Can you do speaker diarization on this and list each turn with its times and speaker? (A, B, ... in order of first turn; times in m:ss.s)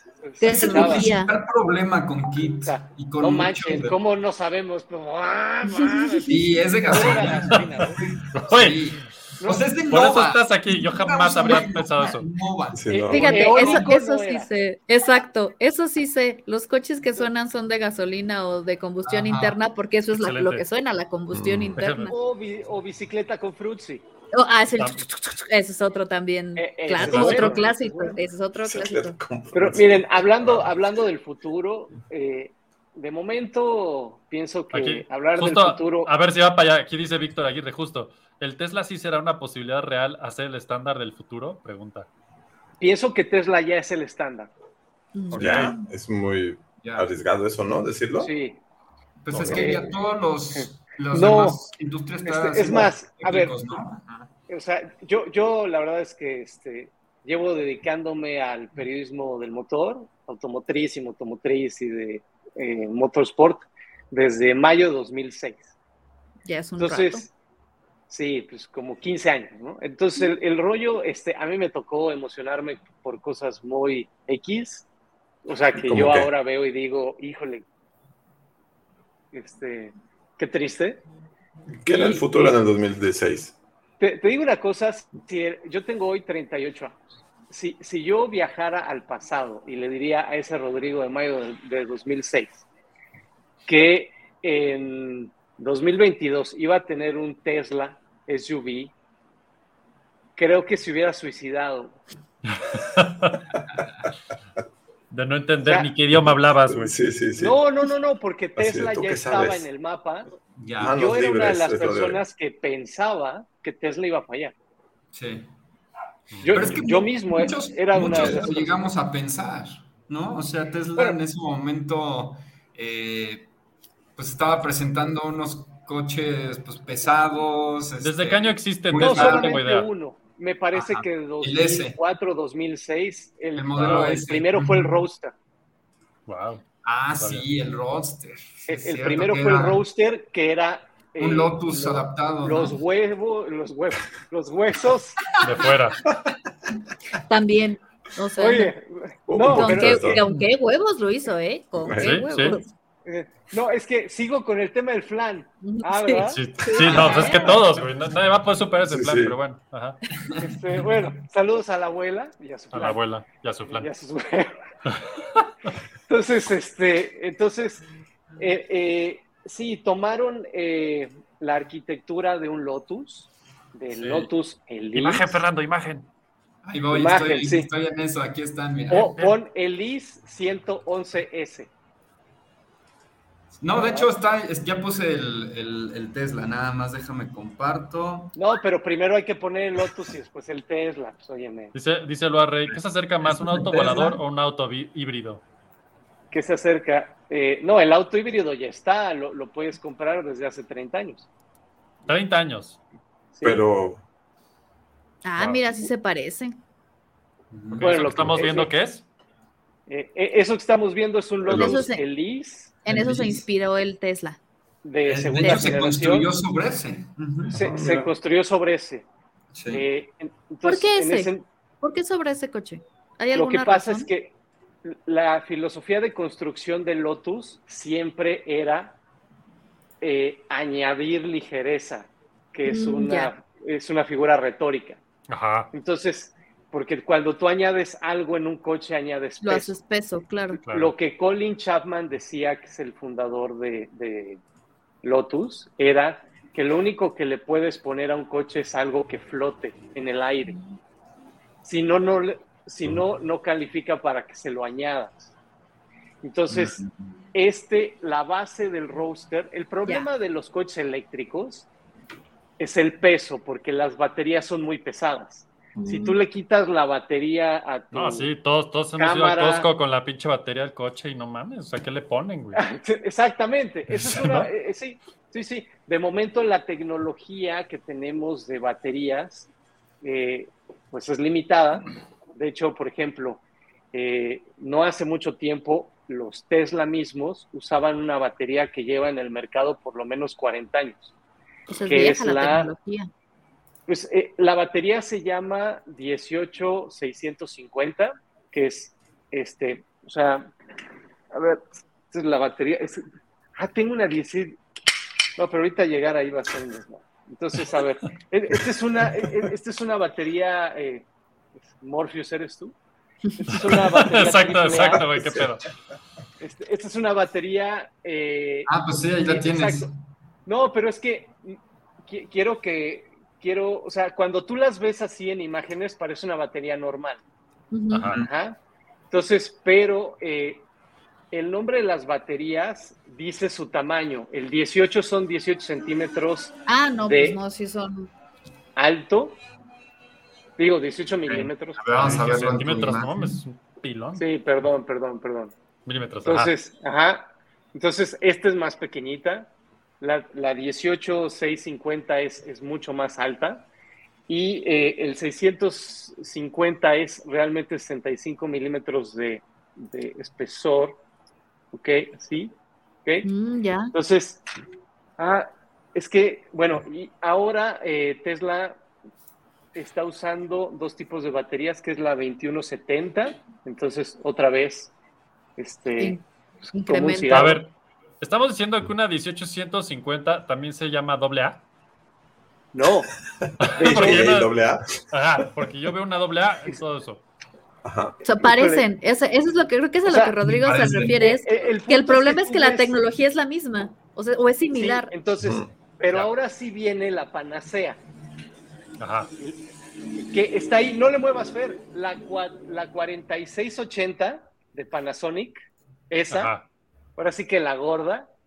0:00.2-0:01.1 A
0:00.4-0:01.3 B
0:00.5-0:03.9 C
0:02.6-0:08.0 A
0:05.9-0:06.2 B
0:06.3-0:13.9 C
0:08.3-0:09.0 D
0:09.4-0:09.7 A
0:09.9-0:12.2 D
0:12.7-0:13.5 E
0:12.9-0:14.5 A
0:13.1-0:22.2 B
0:19.0-0:19.6 C
0:20.2-0:20.6 D
0:21.3-0:21.8 E
0:21.7-0:22.1 D
0:22.1-0:24.0 A
0:24.3-0:29.2 B
0:24.8-0:25.0 D
0:26.6-0:28.2 A
0:27.0-0:27.4 E
0:27.1-0:27.6 D
0:28.6-0:30.7 E
0:29.5-0:36.1 A
0:34.7-0:42.1 D
0:42.8-0:44.5 A
0:45.1-0:45.9 B
0:45.3-0:48.3 E
0:46.8-0:47.1 C
0:48.2-0:48.6 A
0:49.2-0:54.3 C
0:49.3-0:49.6 D
0:49.5-0:49.9 A
0:50.5-0:51.6 A
0:52.2-0:53.6 A
0:54.5-1:05.7 A
1:06.4-1:07.2 B
1:06.8-1:07.3 A
1:08.1-1:14.8 A
1:15.4-1:17.6 A
1:15.8-1:16.3 E
1:19.3-1:21.0 A
1:21.8-1:23.6 E
1:21.9-1:22.6 A
1:24.0-1:32.6 A
1:33.6-1:38.9 A
1:40.4-1:42.0 A
1:42.4-1:43.4 D
1:43.7-1:44.0 C
1:45.1-1:47.0 D
1:45.6-1:45.9 A
1:46.7-1:47.6 E
1:47.4-1:50.3 A
1:48.6-1:49.6 E
1:50.6-1:50.9 C
1:50.8-1:52.2 E
1:50.8-1:54.5 A
1:55.1-1:55.5 C
1:56.3-1:56.6 D
1:56.4-1:58.8 A
1:56.5-2:03.5 C
2:04.2-2:09.6 C
2:08.0-2:09.9 D
2:09.0-2:15.3 A
2:10.7-2:12.0 C
2:13.5-2:15.0 C
2:13.8-2:14.1 D
2:16.3-2:16.6 D
2:16.8-2:19.8 C
2:17.2-2:17.4 D
2:18.7-2:25.2 A
2:21.2-2:22.8 C
2:25.4-2:25.7 C
2:25.4-2:26.0 D
2:27.2-2:28.7 B
2:28.4-2:30.1 A
2:29.3-2:30.2 E
2:29.5-2:32.7 B
2:31.8-2:32.1 E
2:32.0-2:32.6 D
2:33.0-2:36.4 A
2:35.6-2:37.5 B
2:36.3-2:40.0 D
2:36.8-2:37.2 C
2:37.0-2:37.5 A
2:38.9-2:39.4 E
2:40.4-2:43.0 A
2:42.7-2:43.9 D
2:43.7-2:44.5 A
2:44.9-2:45.4 D
2:46.1-2:47.8 A
2:48.4-2:55.4 A
2:53.9-2:54.2 D
2:54.9-2:56.1 D
2:56.6-2:59.1 C
2:56.9-2:57.7 A
2:58.9-3:01.7 A
3:03.6-3:08.3 C
3:03.7-3:04.1 A
3:08.3-3:11.7 A
3:11.7-3:15.4 D
3:13.2-3:14.2 C
3:16.3-3:21.3 A
3:22.1-3:22.8 D
3:23.3-3:23.6 A
3:23.4-3:24.0 E
3:25.2-3:26.6 B
3:25.4-3:25.6 D
3:27.5-3:28.6 C
3:27.8-3:29.0 D
3:27.8-3:28.7 A
3:29.9-3:32.8 A
3:31.5-3:31.8 E
3:31.5-3:32.0 B
3:32.8-3:34.4 B
3:32.9-3:33.4 C
3:34.8-3:36.3 A
3:35.0-3:37.6 C
3:37.5-3:38.1 E
3:37.5-3:39.1 A
3:39.5-3:39.8 C
3:39.7-3:41.4 A
3:40.6-3:44.1 B
3:43.3-3:49.0 A
3:50.0-3:55.0 A
3:52.6-3:53.3 B
3:55.3-3:55.7 D
3:55.7-3:59.7 A
3:59.4-4:00.6 B
4:00.6-4:04.4 A
4:00.6-4:00.9 D
4:05.0-4:10.5 A
4:10.5-4:10.8 B
4:11.6-4:15.3 A
4:16.2-4:16.8 A
4:16.5-4:16.9 C
4:17.3-4:21.7 A
4:22.6-4:28.3 A
4:25.8-4:26.0 D
4:25.8-4:26.2 B
4:27.9-4:32.6 D
4:29.0-4:29.7 A
4:32.5-4:39.5 A
4:33.9-4:34.5 D
4:40.0-4:43.4 A
4:43.9-4:51.1 A
4:51.7-4:53.1 B
4:51.9-4:52.7 A
4:53.9-5:00.5 A
5:01.3-5:03.0 A
5:03.6-5:04.6 A
5:05.4-5:11.0 A
5:11.6-5:12.8 A
5:13.4-5:15.0 A
5:14.1-5:15.7 D
5:15.0-5:15.4 E
5:16.4-5:19.9 A
5:18.7-5:19.9 C
5:20.4-5:27.2 A
5:27.7-5:28.1 B
5:27.9-5:28.2 D
5:28.2-5:28.6 A
5:29.1-5:30.7 A
5:31.3-5:36.5 A
5:36.7-5:38.1 B
5:37.0-5:37.4 A
5:38.8-5:39.4 A
5:40.6-5:41.8 A
5:41.3-5:43.3 C
5:41.9-5:44.2 D
5:44.1-5:45.5 A
5:45.8-5:46.5 D
5:46.2-5:53.7 A
5:54.3-6:01.0 A
6:01.7-6:02.5 A
6:03.2-6:03.9 B
6:03.9-6:04.4 A
6:05.2-6:08.8 A
6:09.7-6:14.9 A
6:15.6-6:16.2 A
6:16.0-6:17.6 B
6:16.8-6:17.6 A
6:17.3-6:17.7 D
6:18.2-6:21.6 D
6:22.7-6:23.1 A
6:23.4-6:24.9 E
6:23.6-6:24.5 D
6:23.8-6:24.3 A
6:25.1-6:27.2 D
6:27.8-6:28.2 E
6:28.2-6:35.1 B
6:28.4-6:28.8 A
6:30.1-6:30.3 A
6:30.4-6:31.3 C
6:31.2-6:33.0 A
6:34.7-6:38.0 A
6:35.4-6:35.7 E
6:39.0-6:39.3 D
6:40.2-6:45.6 A
6:46.1-6:46.5 A
6:46.3-6:46.6 D
6:47.2-6:48.3 A